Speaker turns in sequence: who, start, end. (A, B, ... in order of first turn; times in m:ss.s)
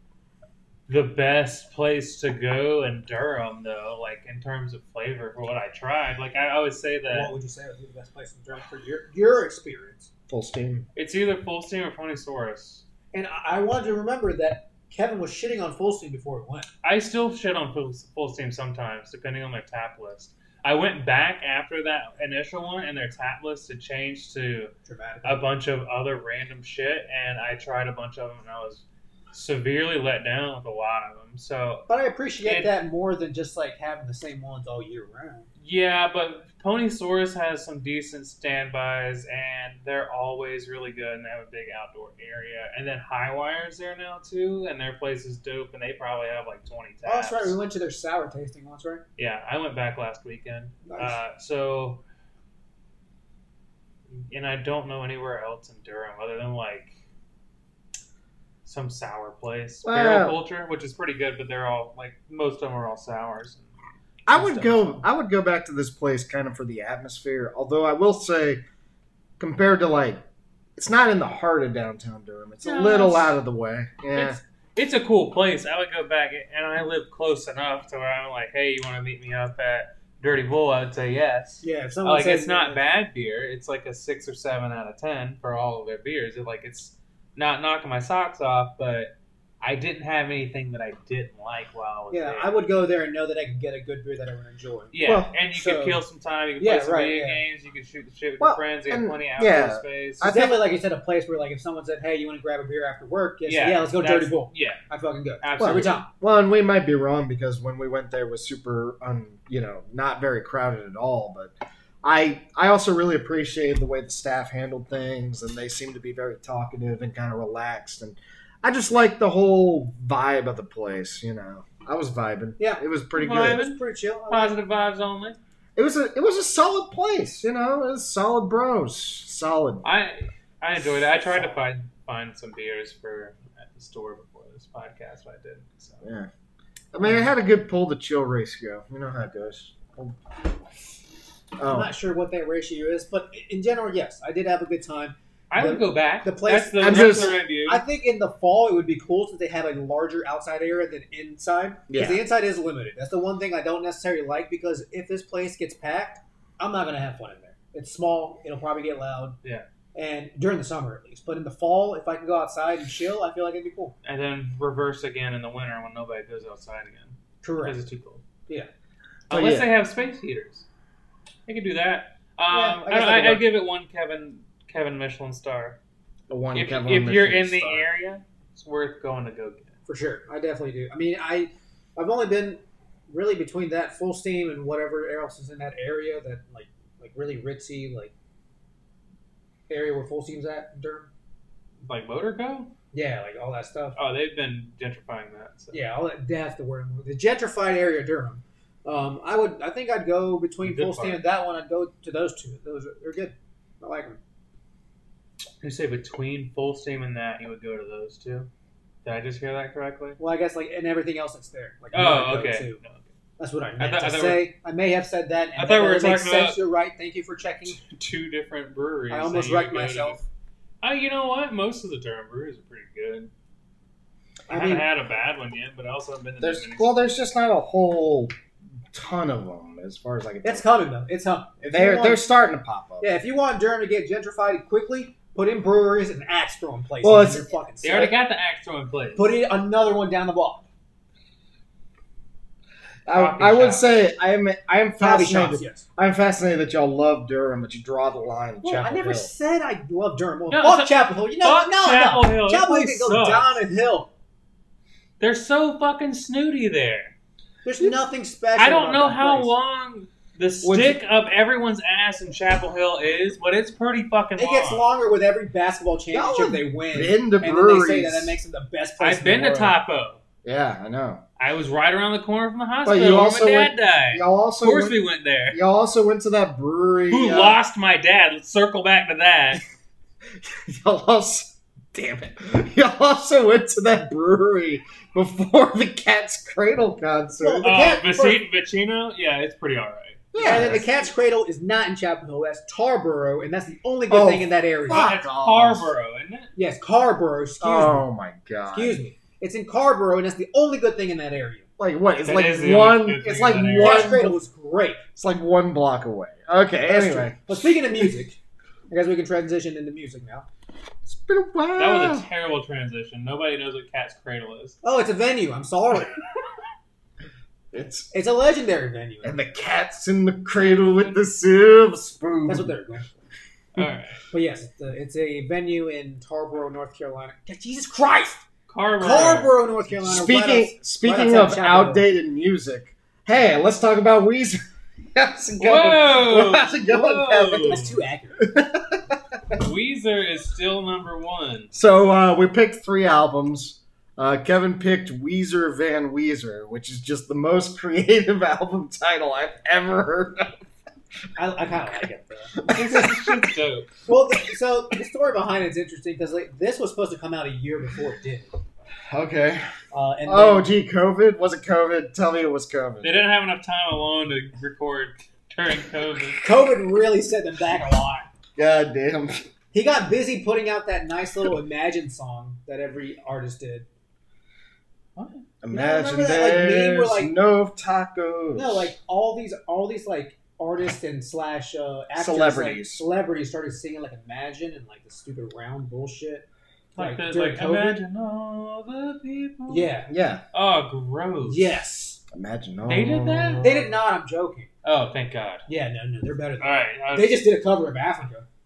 0:00.9-0:07.3 A
0:07.1-0:10.1 B
0:10.3-0:10.9 C
0:11.0-0:12.8 A
0:13.1-0:16.7 B
0:16.8-0:24.7 A
0:24.9-0:25.5 B
0:25.2-0:31.9 A
0:31.9-0:35.5 B
0:32.4-0:32.7 A
0:35.6-0:47.6 A
0:47.0-0:49.0 B
0:49.2-0:52.0 A
0:50.9-0:51.2 B
0:54.2-0:57.0 A
0:58.6-1:03.8 A
0:59.8-1:00.4 C
1:04.3-1:05.0 A
1:04.3-1:08.6 C
1:09.4-1:10.2 C
1:10.8-1:14.4 C
1:12.6-1:13.4 A
1:14.1-1:32.5 A
1:21.6-1:22.8 B
1:32.1-1:34.9 B
1:34.9-1:40.3 A
1:35.0-1:35.3 C
1:35.5-1:36.0 B
1:36.6-1:37.4 B
1:38.4-1:40.6 C
1:40.2-1:46.1 B
1:43.5-1:44.8 A
1:45.4-1:46.0 A
1:45.6-2:03.6 C
2:02.6-2:04.6 B
2:03.1-2:05.4 A
2:05.8-2:09.9 C
2:09.8-2:16.0 A
2:11.1-2:11.6 B
2:16.0-2:16.3 C
2:16.9-2:20.2 C
2:17.0-2:17.3 B
2:21.6-2:21.9 C
2:21.7-2:39.4 B
2:25.5-2:27.8 A
2:26.8-2:27.4 C
2:31.9-2:32.2 C
2:39.9-2:43.9 B
2:44.0-2:48.2 A
2:47.4-2:47.8 B
2:49.3-2:50.6 A
2:49.3-2:49.7 C
2:51.5-2:55.8 A
2:52.5-2:53.4 B
2:56.3-2:57.9 C
2:56.5-2:59.7 A
2:59.9-3:08.1 B
3:09.7-3:11.1 B
3:11.8-3:12.7 A
3:12.9-3:14.0 B
3:14.0-3:15.8 A
3:15.7-3:24.2 B
3:20.6-3:21.2 A
3:25.6-3:28.5 A
3:29.0-3:30.2 A
3:30.2-3:32.8 B
3:31.9-3:33.1 A
3:33.4-3:37.8 B
3:33.8-3:34.5 A
3:35.6-3:36.6 A
3:37.8-3:40.2 A
3:39.1-3:40.2 B
3:40.8-3:43.3 A
3:44.5-3:44.9 B
3:44.5-3:47.0 A
3:46.4-3:48.4 C
3:48.9-3:50.6 C
3:50.4-3:52.3 B
3:51.6-3:53.1 C
3:53.0-3:58.1 B
3:57.0-3:58.1 C
3:57.8-3:59.3 A
3:59.2-4:00.6 B
4:03.1-4:09.3 C
4:03.1-4:03.9 A
4:05.0-4:05.8 B
4:08.6-4:14.1 B
4:10.5-4:13.6 A
4:15.2-4:17.1 A
4:17.6-4:19.5 B
4:18.6-4:24.9 A
4:20.6-4:21.0 C
4:24.4-4:29.8 B
4:26.1-4:28.4 C
4:29.0-4:30.2 A
4:30.4-4:31.2 C
4:31.4-4:35.6 A
4:32.8-4:35.0 C
4:35.5-4:37.6 C
4:37.1-4:39.6 A
4:40.4-4:47.7 C
4:47.4-4:48.4 B
4:47.6-4:50.8 A
4:50.3-4:51.1 C
4:50.4-4:55.1 B
4:54.1-4:55.9 C
4:54.9-4:56.5 A
4:56.6-4:58.1 B
4:57.6-4:59.0 C
4:58.7-5:01.7 B
5:01.8-5:04.3 C
5:02.2-5:04.2 A
5:03.6-5:05.0 B
5:05.2-5:08.1 C
5:06.8-5:08.4 B
5:08.9-5:10.5 B
5:11.1-5:12.3 C
5:11.8-5:14.8 A
5:14.8-5:16.2 B
5:17.7-5:18.1 C
5:18.1-5:19.4 B
5:19.2-5:22.7 C
5:22.4-5:23.2 B
5:23.7-5:24.2 A
5:24.3-5:28.4 B
5:28.7-5:29.6 A
5:29.0-5:32.0 B
5:30.0-5:34.6 C
5:35.1-5:37.8 C
5:35.6-5:38.0 A
5:37.6-5:38.5 B
5:38.5-5:39.6 C
5:39.5-5:41.7 A
5:41.7-5:50.6 C
5:51.4-5:53.1 B
5:52.6-5:53.3 C
5:52.7-5:53.9 A
5:54.1-5:58.6 B
5:59.1-5:59.6 C
5:59.9-6:00.7 B
6:00.3-6:03.1 C
6:03.0-6:06.4 A
6:06.4-6:08.3 B
6:08.6-6:09.4 C
6:09.7-6:13.9 B
6:15.2-6:15.4 A
6:15.6-6:18.9 C
6:15.7-6:17.3 B
6:18.5-6:28.0 B
6:22.1-6:23.0 C
6:26.9-6:29.9 A
6:29.7-6:30.1 B
6:30.1-6:30.4 C
6:30.5-6:31.8 A
6:31.4-6:32.2 B
6:32.3-6:33.8 C
6:32.9-6:33.9 A
6:33.6-6:34.7 B
6:34.8-6:35.6 A
6:35.7-6:38.5 B
6:36.6-6:37.5 A